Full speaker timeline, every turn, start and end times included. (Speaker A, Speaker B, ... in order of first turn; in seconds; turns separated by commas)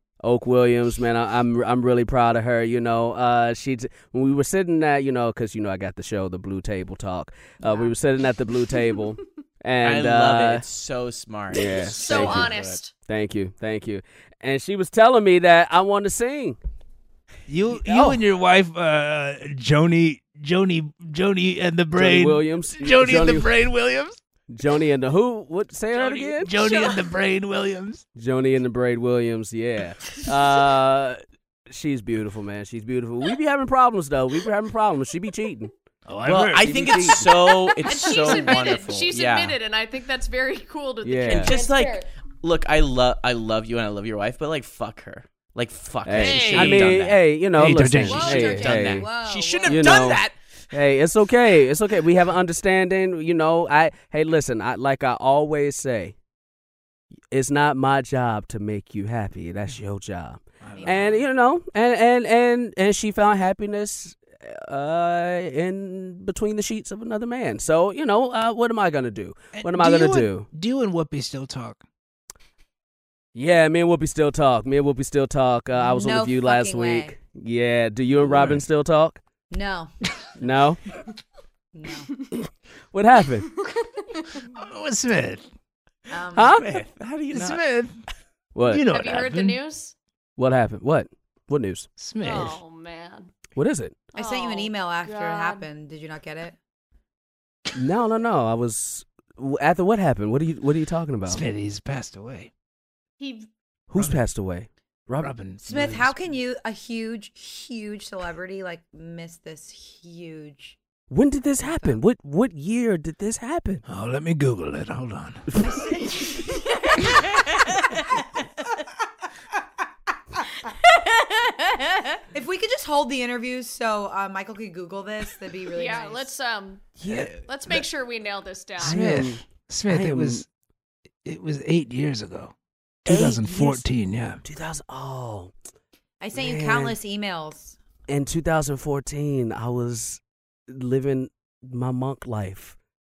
Speaker A: 0.2-10.7, Speaker B: 7.7-7.9, Speaker C: 9.8-12.8, Speaker A: 11.5-12.5, Speaker D: 11.6-12.9, Speaker A: 13.1-16.6, Speaker E: 17.5-24.2, Speaker A: 17.7-18.2, Speaker A: 22.0-23.5, Speaker A: 24.5-26.6, Speaker E: 25.9-28.1, Speaker D: 26.6-27.0, Speaker A: 28.2-35.7, Speaker E: 36.1-37.2, Speaker C: 36.2-39.6, Speaker A: 36.6-37.4, Speaker D: 37.8-42.0, Speaker B: 38.3-38.6, Speaker A: 41.0-41.5, Speaker C: 41.3-47.2, Speaker B: 41.5-42.0, Speaker A: 46.0-49.1, Speaker E: 46.1-47.0, Speaker E: 47.5-48.4, Speaker B: 48.0-50.2, Speaker C: 48.1-50.4, Speaker A: 49.6-56.1, Speaker A: 57.3-70.5, Speaker E: 60.6-61.2, Speaker B: 60.8-61.1, Speaker E: 69.5-71.8, Speaker A: 73.3-79.2, Speaker B: 75.7-77.1, Speaker E: 78.2-78.6, Speaker B: 79.5-79.9, Speaker A: 80.4-80.8, Speaker B: 81.7-82.2, Speaker A: 82.3-83.5, Speaker D: 83.7-84.3, Speaker E: 84.5-85.5, Speaker B: 86.1-86.6, Speaker A: 86.3-86.8, Speaker C: 86.4-87.6, Speaker E: 87.3-88.0, Speaker A: 88.5-89.1, Speaker E: 88.7-89.6, Speaker D: 88.9-90.0, Speaker A: 90.4-91.9, Speaker E: 92.0-92.6, Speaker D: 92.2-93.3, Speaker A: 93.6-94.0, Speaker D: 94.1-95.7, Speaker B: 94.2-96.6, Speaker A: 97.8-101.5, Speaker E: 101.3-102.5, Speaker D: 103.2-103.5, Speaker A: 103.9-105.3, Speaker E: 105.2-106.2, Speaker B: 105.7-110.8, Speaker A: 111.1-113.8, Speaker B: 111.6-112.0, Speaker E: 113.9-115.5, Speaker B: 115.6-118.1, Speaker B: 122.2-126.3, Speaker D: 125.8-129.0, Speaker A: 127.0-127.3, Speaker E: 127.1-127.3, Speaker E: 128.8-130.5, Speaker A: 128.8-130.4, Speaker E: 131.2-132.5, Speaker E: 133.1-134.4, Speaker A: 133.1-133.9, Speaker A: 134.4-135.5, Speaker B: 136.2-137.8, Speaker A: 136.3-137.0, Speaker A: 138.1-142.8